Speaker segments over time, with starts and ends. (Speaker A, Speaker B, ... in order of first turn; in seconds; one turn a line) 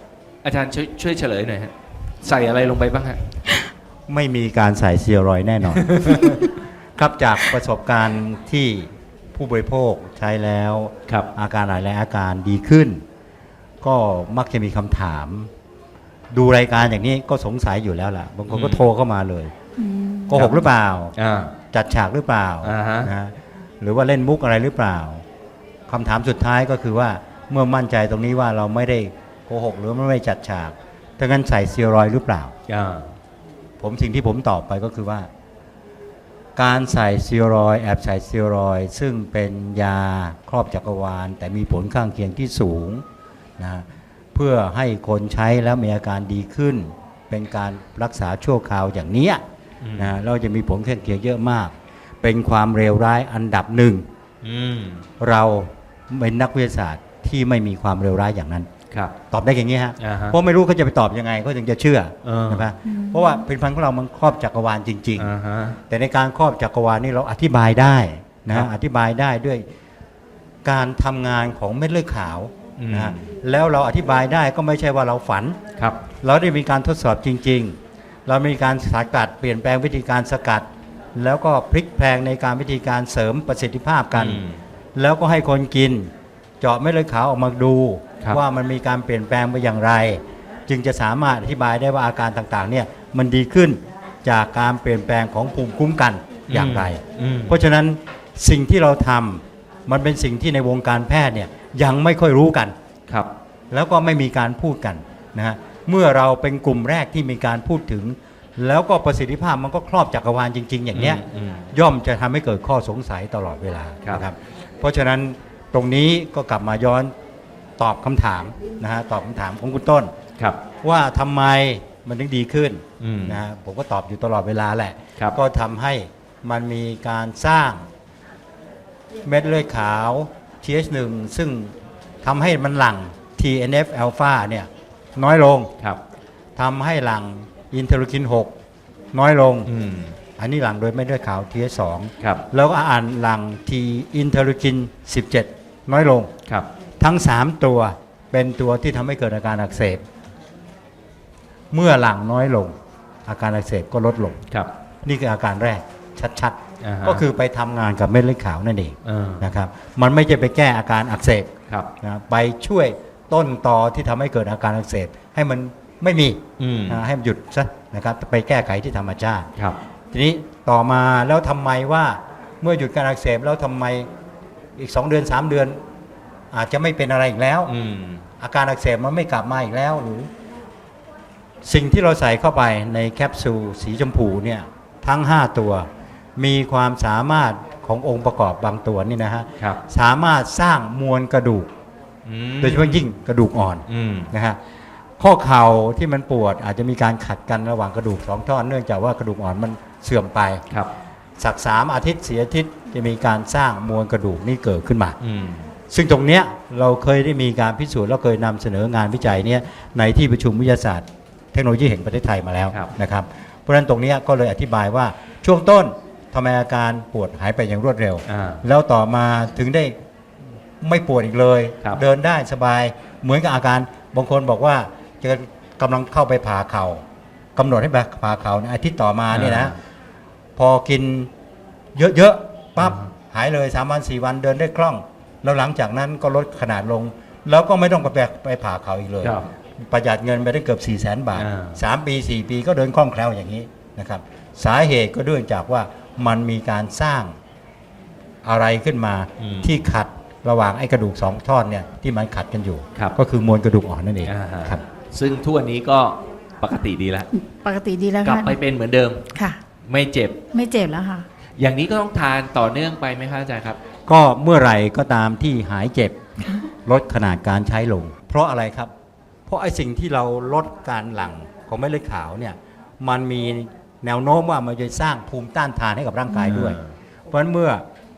Speaker A: 0.4-3.2
Speaker B: 4.1-6.4
Speaker A: 5.9-6.3
Speaker B: 7.0-13.0
Speaker B: 13.8-15.5
Speaker B: 16.3-19.5
Speaker A: 18.5-18.8
Speaker C: 19.8-20.5
Speaker B: 20.3-21.1
Speaker A: 20.3-20.6
Speaker A: 21.1-21.6
Speaker B: 21.7-25.2
Speaker A: 22.6-23.1
Speaker B: 25.9-32.5
Speaker A: 32.7-33.2
Speaker B: 33.8-35.3
Speaker B: 36.5-43.0
Speaker B: 43.6-49.4
Speaker A: 49.8-50.1
Speaker B: 50.0-54.0
Speaker A: 54.4-55.1
Speaker B: 55.2-58.7
Speaker B: 59.3-65.3
Speaker A: 60.0-60.4
Speaker A: 62.2-62.7
Speaker C: 62.9-63.4
Speaker A: 65.2-65.8
Speaker B: 65.9-69.6
Speaker B: 70.6-75.6
Speaker A: 72.8-73.3
Speaker B: 76.2-84.4
Speaker A: 84.1-84.6
Speaker B: 85.0-102.7
Speaker A: 96.5-97.5
Speaker B: 103.7-117.1
Speaker A: 110.9-111.7
Speaker B: 117.8-120.1
Speaker B: 120.8-127.9
Speaker A: 123.0-123.4
Speaker B: 129.2-135.7
Speaker B: 136.6-138.5
Speaker B: 139.1-139.7
Speaker A: 139.7-140.2
Speaker B: 140.4-146.3
Speaker A: 142.2-142.4
Speaker B: 147.0-150.0
Speaker B: 151.7-152.7
Speaker B: 153.2-154.4
Speaker B: 155.0-161.5
Speaker A: 156.8-157.2
Speaker A: 159.0-159.5
Speaker B: 162.0-169.5
Speaker A: 166.6-167.0
Speaker B: 170.1-174.1
Speaker B: 174.8-175.8
Speaker B: 176.5-177.7
Speaker A: 177.7-178.2
Speaker B: 178.4-180.3
Speaker B: 181.6-191.7
Speaker A: 192.2-193.1
Speaker B: 192.6-194.6
Speaker A: 193.9-194.3
Speaker B: 195.2-200.6
Speaker B: 201.4-205.2
Speaker A: 205.2-205.7
Speaker B: 205.9-220.0
Speaker A: 218.2-218.6
Speaker B: 220.8-227.0
Speaker B: 227.6-229.8
Speaker A: 229.3-229.8
Speaker B: 230.6-231.3
Speaker B: 231.9-247.3
Speaker A: 232.8-233.1
Speaker A: 239.2-239.5
Speaker A: 241.3-241.8
Speaker B: 248.4-254.8
Speaker A: 249.4-249.7
Speaker A: 254.2-257.3
Speaker C: 257.3-258.6
Speaker A: 258.2-259.3
Speaker C: 259.3-259.6
Speaker A: 259.8-260.4
Speaker C: 260.5-261.3
Speaker A: 261.6-263.8
Speaker B: 264.1-266.1
Speaker C: 266.4-266.7
Speaker B: 266.8-268.9
Speaker B: 269.5-276.8
Speaker A: 276.4-276.9
Speaker B: 277.3-277.8